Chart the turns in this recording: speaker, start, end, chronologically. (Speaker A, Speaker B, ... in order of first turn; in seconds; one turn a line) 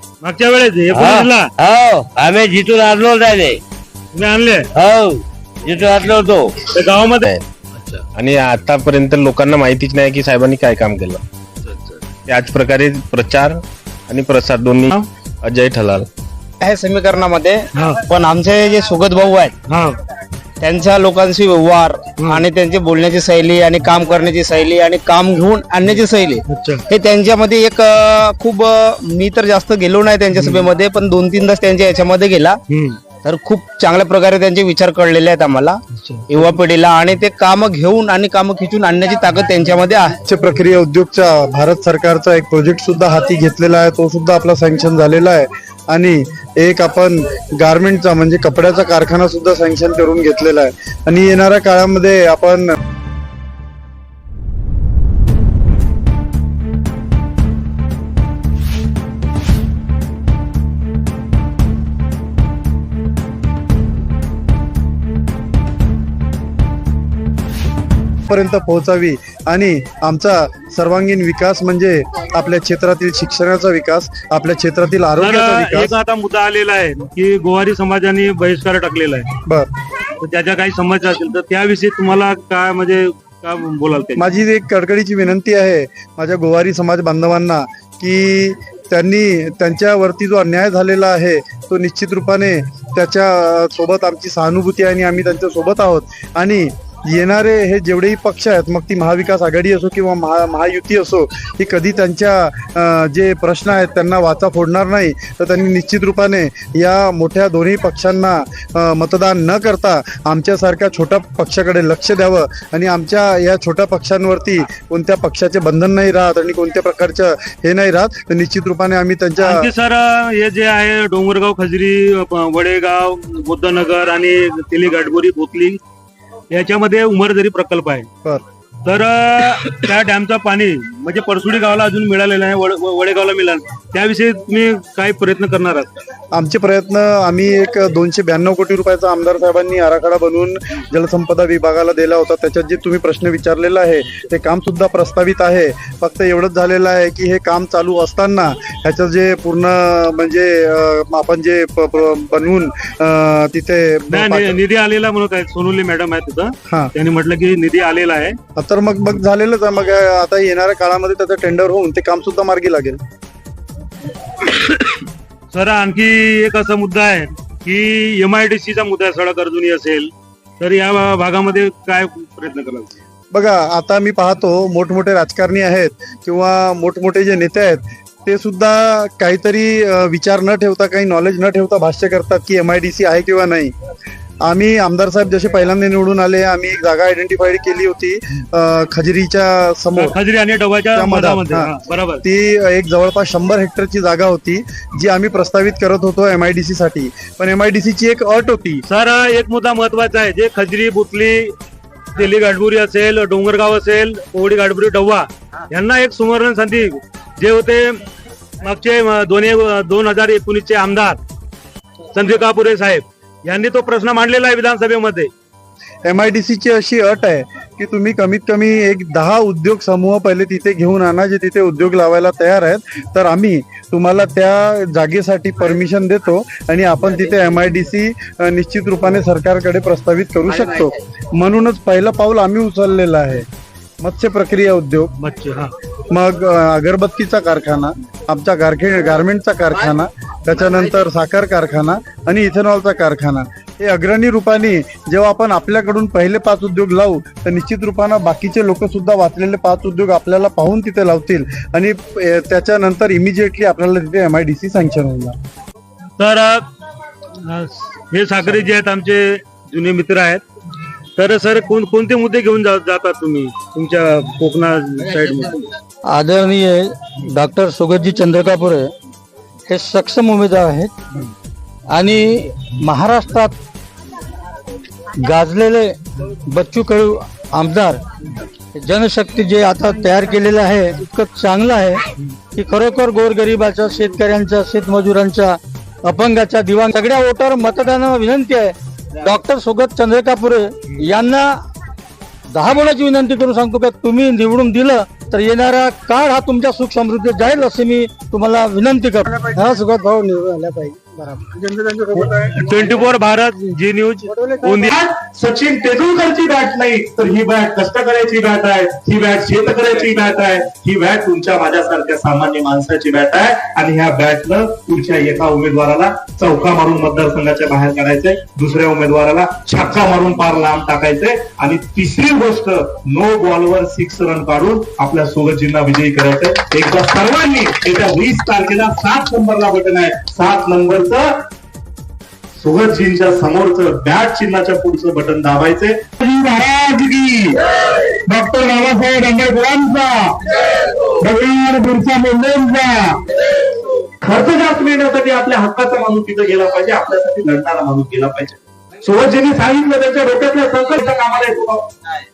Speaker A: 0.2-1.5
Speaker B: 0.9-3.6
Speaker A: 4.2-4.7
Speaker B: 4.8-6.6
Speaker A: 6.8-7.3
Speaker C: 8.1-14.9
Speaker C: 15.4-16.1
Speaker D: 16.6-19.5
Speaker A: 17.7-18.0
Speaker A: 19.7-20.0
Speaker D: 20.6-32.6
Speaker A: 26.5-26.8
Speaker A: 30.3-30.7
Speaker A: 32.7-33.0
Speaker D: 33.1-40.2
Speaker A: 36.0-36.2
Speaker E: 40.2-52.7
Speaker E: 68.3-75.9
Speaker A: 75.2-79.3
Speaker A: 80.2-84.2
Speaker E: 84.2-119.7
Speaker A: 119.4-125.8
Speaker A: 126.5-128.1
Speaker A: 128.8-135.9
Speaker E: 136.3-154.6
Speaker A: 154.1-158.4
Speaker E: 158.6-163.0
Speaker A: 164.5-165.0
Speaker A: 165.5-172.9
Speaker E: 173.3-183.7
Speaker E: 184.4-190.2
Speaker A: 190.0-192.2
Speaker E: 190.9-198.8
Speaker A: 198.9-201.6
Speaker A: 202.2-208.0
Speaker A: 208.6-211.2
Speaker A: 212.1-215.3
Speaker E: 216.1-233.5
Speaker E: 234.0-235.1
Speaker A: 235.2-235.7
Speaker E: 236.1-255.4
Speaker A: 256.2-256.7
Speaker A: 257.5-260.4
Speaker A: 261.2-265.7
Speaker F: 266.1-268.9
Speaker F: 269.7-270.9
Speaker F: 271.9-273.5
Speaker F: 275.2-276.0
Speaker F: 276.5-278.0
Speaker F: 278.8-291.6
Speaker F: 292.5-302.5
Speaker A: 302.5-304.9
Speaker F: 304.3-304.9
Speaker G: 304.6-331.4
Speaker G: 332.6-336.3
Speaker G: 337.8-343.2
Speaker G: 344.2-351.9